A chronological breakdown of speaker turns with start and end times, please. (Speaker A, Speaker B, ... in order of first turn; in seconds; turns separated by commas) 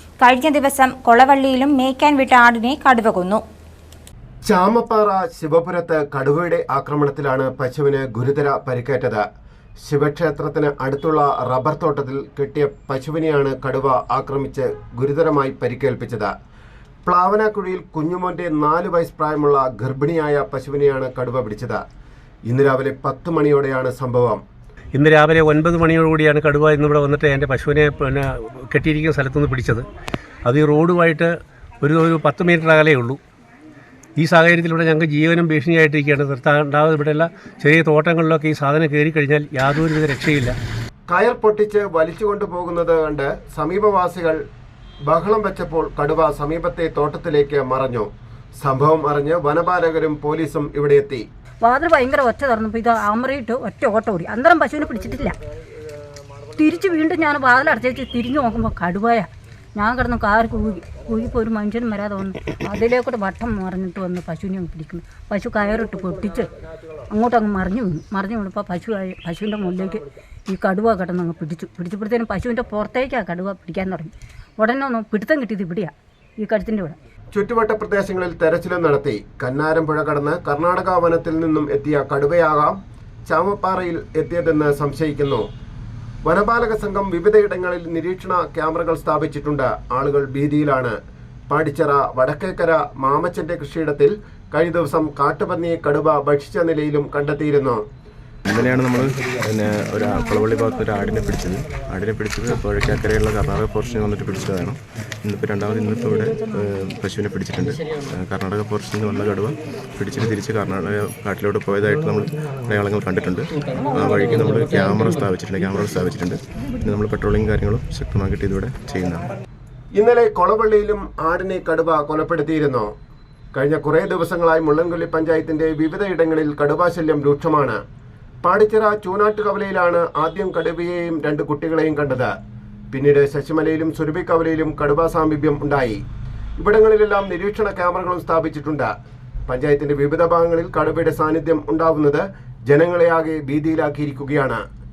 Speaker A: 0.2-3.4, Speaker B: 4.5-9.2, Speaker B: 9.8-16.3, Speaker B: 17.1-21.8, Speaker B: 22.5-24.4, Speaker C: 24.9-29.9, Speaker C: 30.4-33.2, Speaker C: 34.2-40.6, Speaker B: 41.1-44.4, Speaker B: 45.0-48.1, Speaker B: 48.6-51.2, Speaker D: 51.6-55.4, Speaker D: 56.6-66.5, Speaker D: 67.1-77.0, Speaker B: 77.3-85.5, Speaker B: 86.2-91.0, Speaker B: 91.5-97.8, Speaker E: 98.5-119.3, Speaker B: 119.9-122.9, Speaker B: 123.5-127.8, Speaker B: 128.4-132.3, Speaker B: 132.9-136.0, Speaker B: 136.6-138.9, Speaker B: 139.5-144.6